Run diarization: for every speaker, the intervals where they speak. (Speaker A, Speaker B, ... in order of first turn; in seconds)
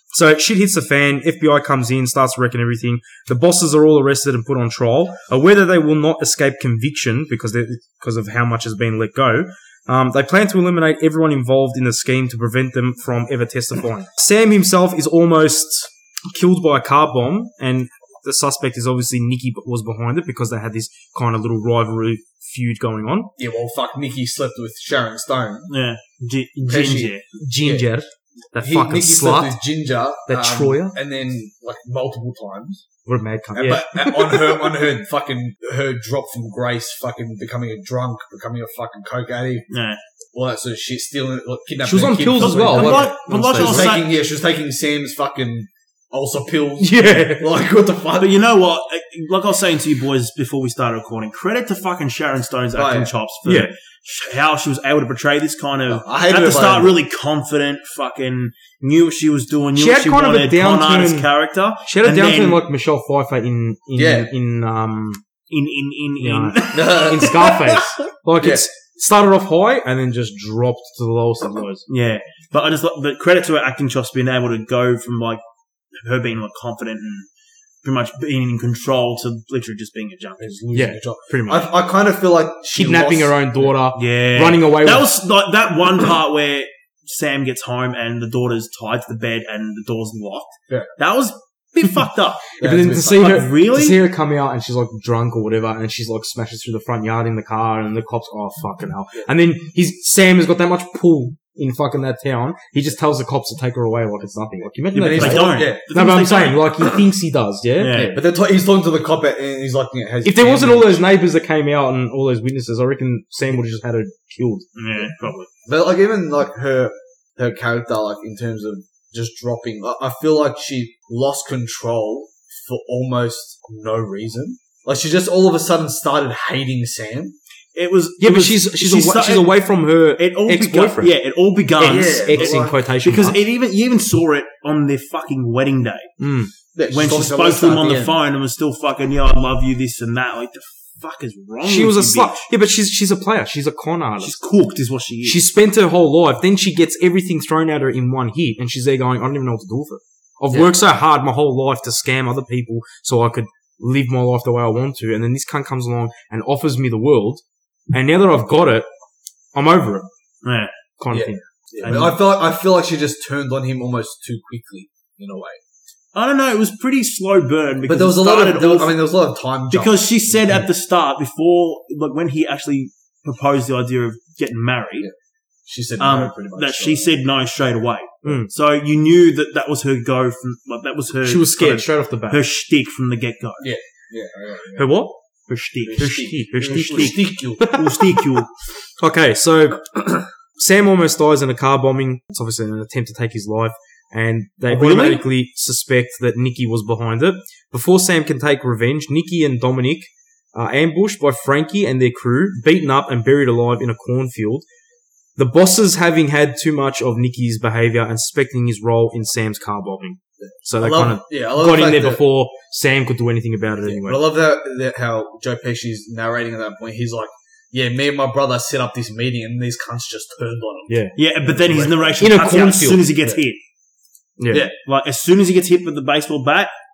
Speaker A: 0.1-23.3, 27.4-29.6, 30.3-31.0, 33.1-34.4, 41.8-43.9, 46.8-47.5, 53.5-53.7, 59.8-61.3, 61.8-65.2, 66.2-71.9, 80.7-81.7, 82.8-85.1, 92.6-108.1, 110.2-114.7, 128.2-131.1, 131.8-133.4, 136.2-136.5, 141.6-144.4, 145.2-158.9, 159.6-160.1, 161.0-161.4, 178.2-178.5, 181.2-182.4, 184.8-185.2, 186.2-188.2, 189.0-204.7, 205.4-214.3, 220.9-221.2, 222.2-223.1, 224.4-224.7
Speaker B: 23.4-25.7, 26.7-27.9, 28.5-32.9, 33.5-39.7, 40.3-48.4, 52.8-53.1, 55.9-57.0, 64.0-64.3, 66.7-67.4, 68.4-68.7, 80.4-83.8, 92.6-93.4, 105.0-105.8, 107.9-111.1, 115.7-127.4, 131.8-132.8, 136.8-138.1, 161.1-165.6, 167.9-170.6, 175.7-177.1, 183.6-184.9, 185.8-187.7, 210.4-212.2, 213.8-222.2, 224.5-224.8
Speaker C: 25.7-27.2, 39.7-40.0, 42.3-44.1, 48.2-62.6, 65.5-68.0, 71.9-75.4, 75.9-77.3, 77.8-80.7, 84.0-94.0, 104.9-107.0, 107.8-108.2, 114.8-115.5, 127.8-129.6, 130.2-136.1, 136.9-142.5, 144.2-145.4, 160.4-160.7, 161.8-162.2, 166.2-169.0, 169.7-175.1, 176.0-183.7, 185.5-188.5, 194.7-195.2, 221.2-223.6, 224.8-226.7